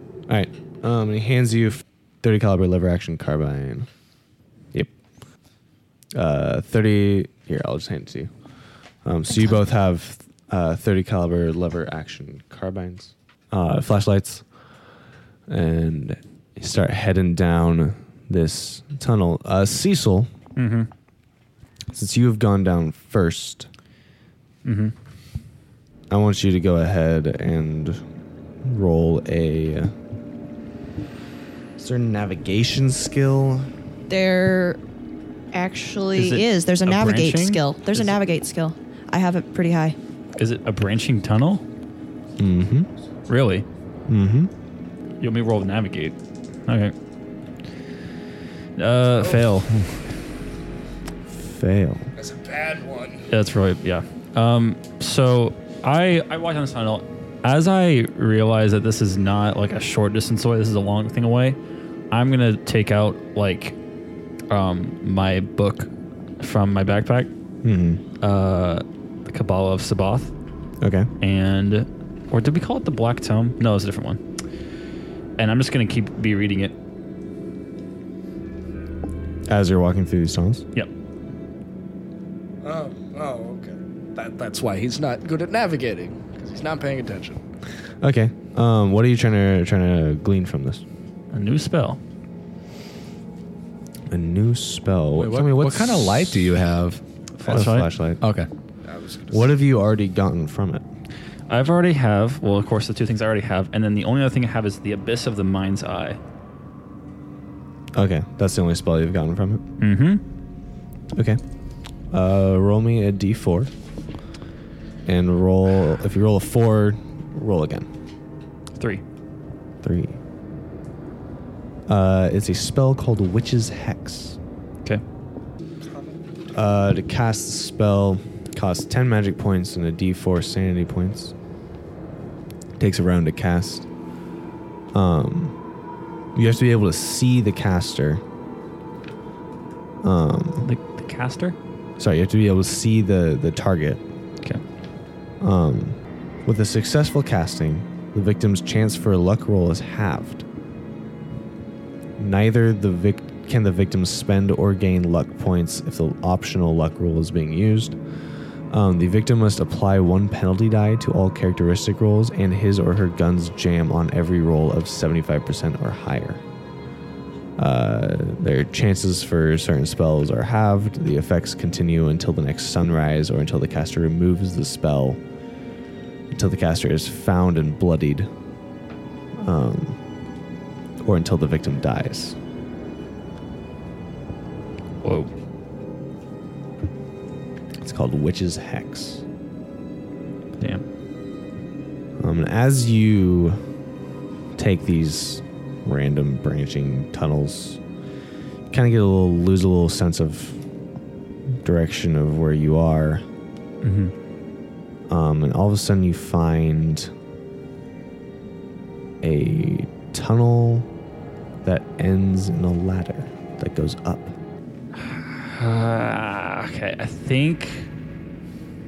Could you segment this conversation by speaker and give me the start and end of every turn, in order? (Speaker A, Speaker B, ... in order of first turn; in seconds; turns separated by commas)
Speaker A: 0.3-3.9, Speaker A: 6.1-8.3, Speaker A: 9.0-14.4, Speaker B: 9.3-9.6, Speaker A: 15.5-20.3, Speaker C: 20.6-20.9, Speaker A: 21.9-23.7, Speaker C: 24.6-24.9, Speaker A: 26.1-28.0, Speaker A: 28.6-29.9, Speaker A: 31.8-33.7, Speaker B: 34.1-34.8, Speaker B: 35.5-40.0, Speaker C: 36.1-38.0, Speaker C: 40.4-41.6, Speaker A: 42.4-42.9, Speaker C: 43.3-43.6, Speaker A: 44.1-44.5, Speaker C: 45.2-46.1, Speaker C: 46.7-46.9, Speaker C: 48.8-49.8, Speaker A: 51.3-52.1, Speaker D: 52.1-53.3, Speaker C: 53.3-61.6, Speaker C: 62.1-63.8, Speaker C: 64.5-67.3, Speaker A: 67.6-68.0, Speaker C: 68.2-70.3, Speaker A: 70.8-71.1, Speaker C: 71.2-74.2, Speaker C: 75.4-76.7, Speaker A: 79.5-80.6, Speaker D: 82.6-87.4, Speaker A: 88.0-90.8, Speaker C: 91.3-92.0, Speaker A: 94.1-96.3, Speaker E: 95.2-97.5, Speaker C: 97.4-97.9, Speaker A: 97.5-98.2, Speaker E: 98.2-98.5, Speaker D: 98.8-99.5, Speaker A: 99.3-100.8, Speaker C: 101.5-106.2, Speaker A: 107.9-109.6, Speaker C: 109.8-110.2, Speaker A: 111.1-111.4, Speaker A: 112.1-113.7, Speaker A: 115.0-117.9, Speaker C: 118.8-119.0, Speaker A: 119.8-120.2, Speaker A: 121.9-124.4, Speaker A: 126.5-131.3, Speaker A: 132.8-133.9, Speaker A: 134.9-135.5, Speaker A: 136.3-138.2, Speaker A: 140.0-140.7, Speaker C: 140.6-141.6, Speaker A: 142.0-144.0, Speaker A: 145.4-150.4, Speaker A: 152.2-158.0, Speaker A: 158.7-166.4, Speaker A: 167.6-175.2, Speaker A: 176.3-178.3, Speaker A: 179.4-180.0, Speaker A: 181.0-182.4, Speaker C: 185.0-185.3, Speaker A: 187.8-189.2, Speaker A: 192.2-193.6, Speaker A: 194.6-197.8, Speaker A: 198.7-200.6, Speaker A: 201.6-203.2, Speaker C: 203.8-204.1, Speaker A: 205.1-207.1, Speaker A: 209.2-210.9, Speaker A: 211.6-214.4, Speaker C: 215.0-217.9